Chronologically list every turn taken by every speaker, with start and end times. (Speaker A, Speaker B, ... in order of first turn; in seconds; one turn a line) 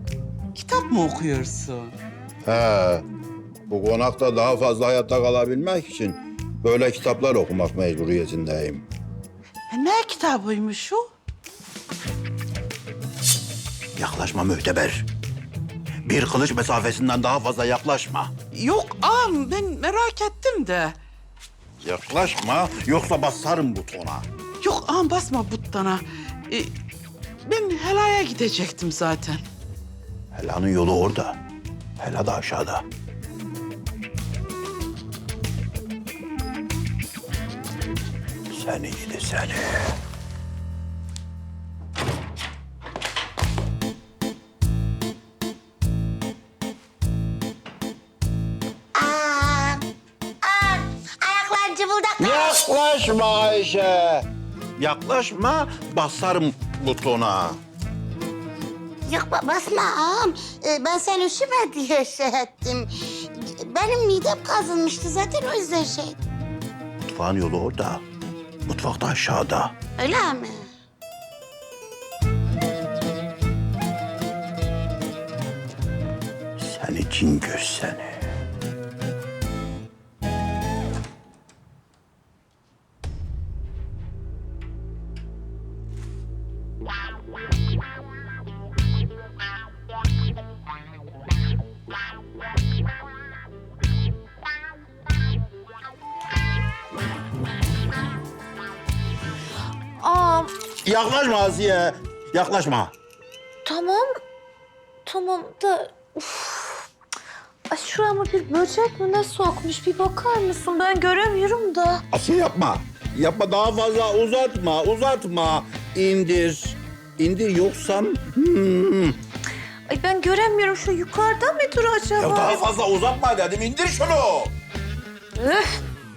Speaker A: 0.5-1.9
Speaker B: 2.4-3.0
Speaker B: 3.7-8.8
Speaker A: 9.7-11.1
Speaker B: 13.9-15.1
Speaker B: 16.0-18.3
Speaker A: 18.5-20.9
Speaker B: 21.8-24.2
Speaker A: 24.6-26.7
Speaker A: 27.4-29.4
Speaker B: 30.3-31.4
Speaker B: 32.0-32.8
Speaker B: 38.5-39.9
Speaker C: 49.0-49.8
Speaker C: 50.4-52.7
Speaker B: 52.2-54.2
Speaker B: 54.8-57.6
Speaker C: 59.0-66.2
Speaker B: 67.0-68.0
Speaker B: 68.6-69.7
Speaker C: 70.0-70.6
Speaker B: 76.6-78.2
Speaker D: 100.0-100.5
Speaker B: 100.8-102.9
Speaker D: 103.6-104.0
Speaker D: 105.0-106.8
Speaker D: 107.7-112.0
Speaker B: 112.1-119.2
Speaker D: 119.9-122.6
Speaker B: 122.2-124.5
Speaker D: 125.3-125.8